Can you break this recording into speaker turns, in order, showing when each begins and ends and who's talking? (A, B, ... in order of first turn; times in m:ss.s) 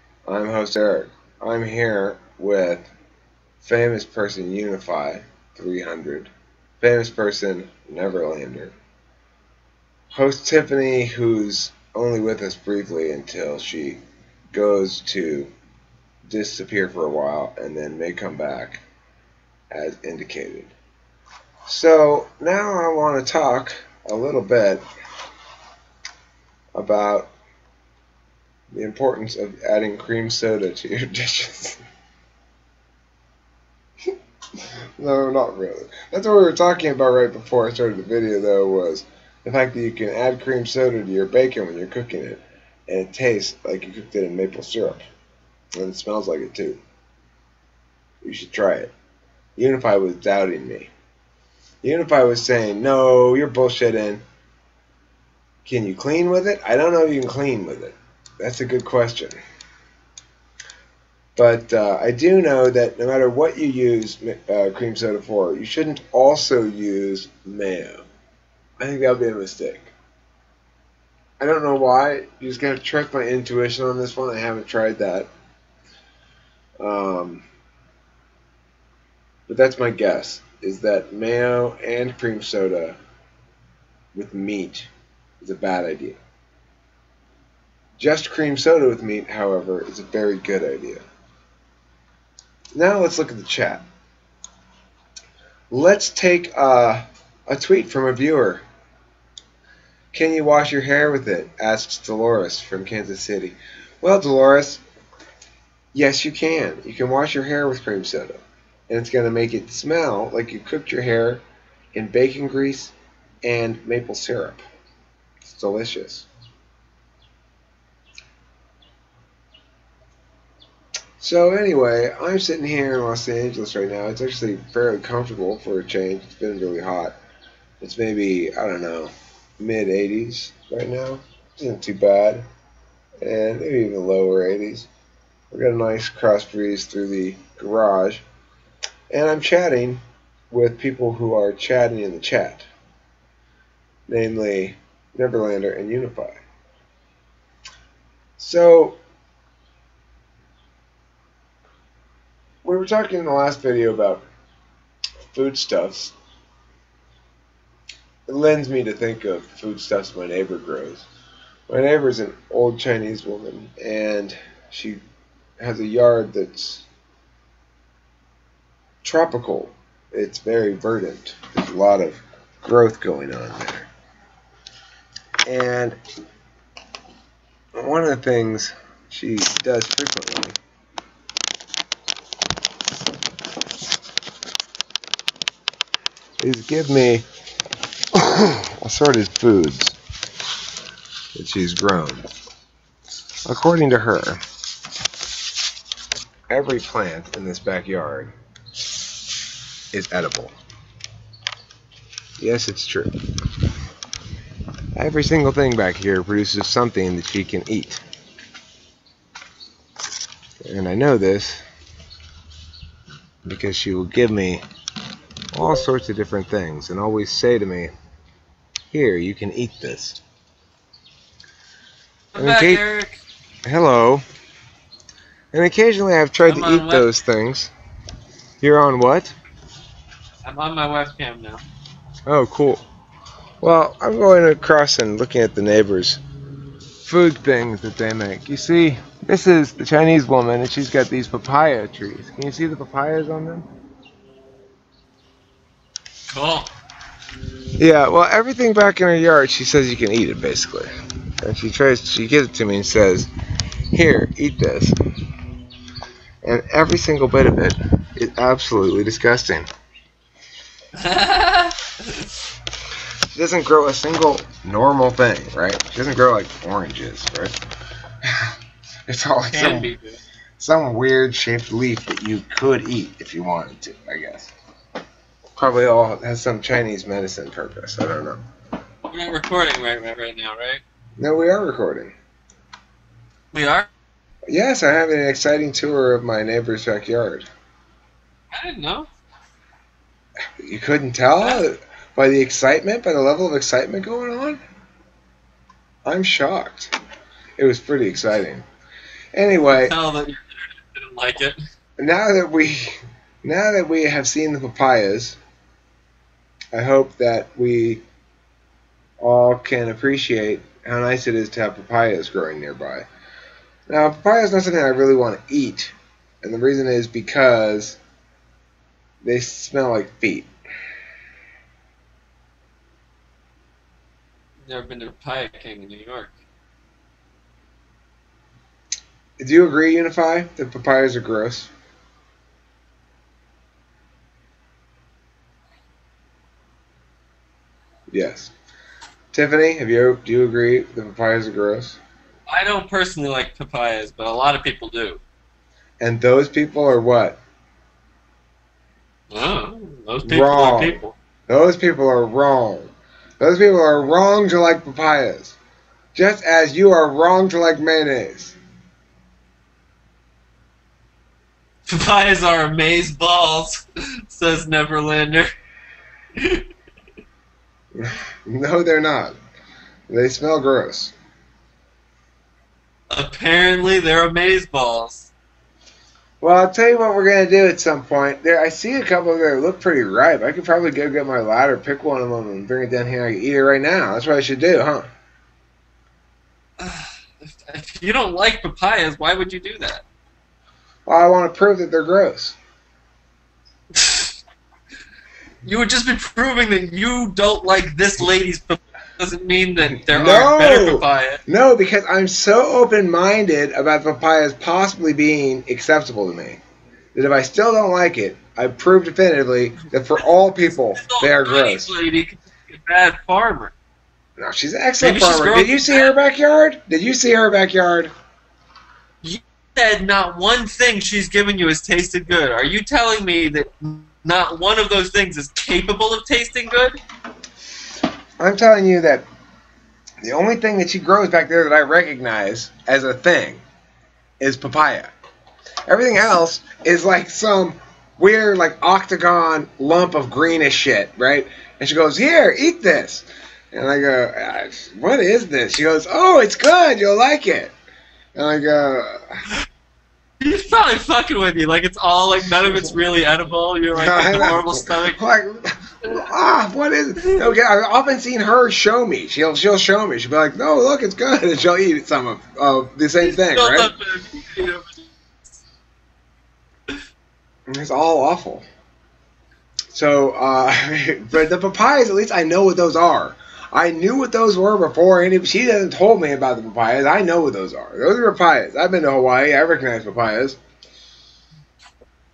0:00.3-0:02.8 A
0:03.6-0:06.3 A
0:06.8-0:08.7 A
0:10.1-0:14.0 A
0:14.5-0:15.5 A
0:16.3-0:18.8 A
0:19.7-0:20.7 A
0:21.6-0:24.8 A
0:26.7-0:27.3 A
0:28.7-0:31.8 A
0:35.0-0:45.0 A
0:45.8-0:46.8 A
0:48.2-0:48.9 A
0:49.6-0:50.9 A
0:51.8-0:54.2 A
0:55.6-0:59.4 A
1:01.4-1:08.0 A
1:08.8-1:09.9 A
1:11.4-1:15.3 A
1:16.8-1:17.4 A
1:19.5-1:23.0 A
1:24.1-1:24.9 A
1:25.4-1:26.2 A
1:28.0-1:31.0 A
1:32.7-1:33.8 A
1:35.7-1:38.6 A
1:40.1-1:44.8 A
1:45.9-1:51.4 A
1:51.9-1:54.6 A
1:55.4-1:56.3 A
2:01.2-2:07.1 A
2:07.8-2:12.4 A
2:13.2-2:14.9 A
2:15.5-2:18.2 A
2:19.1-2:22.7 A
2:24.1-2:26.4 A
2:28.4-2:29.0 A
2:32.6-2:34.2 A
2:35.3-2:36.1 A
2:38.3-2:41.0 A
2:41.7-2:45.0 A
2:45.6-2:46.8 A
2:49.0-2:53.9 A
2:55.5-2:56.0 A
2:57.8-3:00.6 A
3:06.4-3:07.2 A
3:08.1-3:10.0 A
3:11.3-3:12.2 A
3:13.4-3:14.4 A
3:16.5-3:18.3 A
3:19.9-3:20.5 A
3:22.4-3:23.1 A
3:24.9-3:28.0 A
3:30.6-3:31.6 A
3:33.4-3:34.6 A
3:35.5-3:37.9 A
3:38.9-3:40.2 A
3:42.3-3:43.2 B
3:42.4-3:42.8 A
3:43.6-3:44.2 A
3:45.5-3:47.7 A
3:46.4-3:47.1 B
3:48.6-3:49.3 A
3:50.4-3:51.6 B
3:52.2-3:52.8 A
3:53.6-3:56.2 A
3:57.0-4:03.7 A
4:06.3-4:06.7 B
4:07.8-4:10.9 A
4:11.4-4:13.3 A
4:13.9-4:15.0 A
4:16.4-4:19.7 A
4:20.9-4:22.3 B
4:23.3-4:27.6 A
4:29.1-4:29.9 A
4:29.5-4:30.2 B
4:30.6-4:34.5 A
4:35.6-4:38.4 A
4:39.1-4:40.8 B
4:41.2-4:42.1 A
4:43.5-4:43.9 B
4:44.5-4:47.5 A
4:48.5-4:49.1 B
4:50.6-4:54.6 A
4:56.0-4:56.9 A
4:57.6-4:58.6 A
4:59.3-4:59.9 A
4:59.7-5:01.6 B
5:02.0-5:05.4 A
5:06.7-5:08.0 A
5:09.2-5:13.0 A
5:13.9-5:18.0 A
5:19.2-5:20.5 A
5:24.6-5:26.3 B
5:29.4-5:31.7 A
5:38.1-5:38.5 A
5:39.3-5:42.0 A
5:42.5-5:45.2 B
5:46.0-5:47.4 A
5:49.3-5:51.1 B
5:50.2-5:55.6 A
5:56.1-5:58.5 A
6:01.9-6:05.5 B
6:06.4-6:06.6 B
6:08.0-6:09.4 A
6:10.1-6:11.1 A
6:13.1-6:15.3 B
6:16.4-6:25.1 A
6:26.8-6:30.0 B
6:31.1-6:32.6 A
6:33.9-6:34.3 B
6:35.6-6:41.4 B
6:40.0-6:46.6 A
6:47.1-6:51.9 A
6:50.9-6:53.7 B
6:54.4-6:58.1 A
6:55.0-6:56.1 B
6:59.2-7:07.0 B
7:08.4-7:09.2 A
7:10.2-7:13.6 A
7:14.4-7:15.1 A
7:15.9-7:27.7 A
7:28.4-7:29.4 A
7:30.4-7:35.2 B
7:33.9-7:43.9 A
7:43.2-7:45.1 B
7:47.7-7:48.6 A
7:49.9-8:00.6 A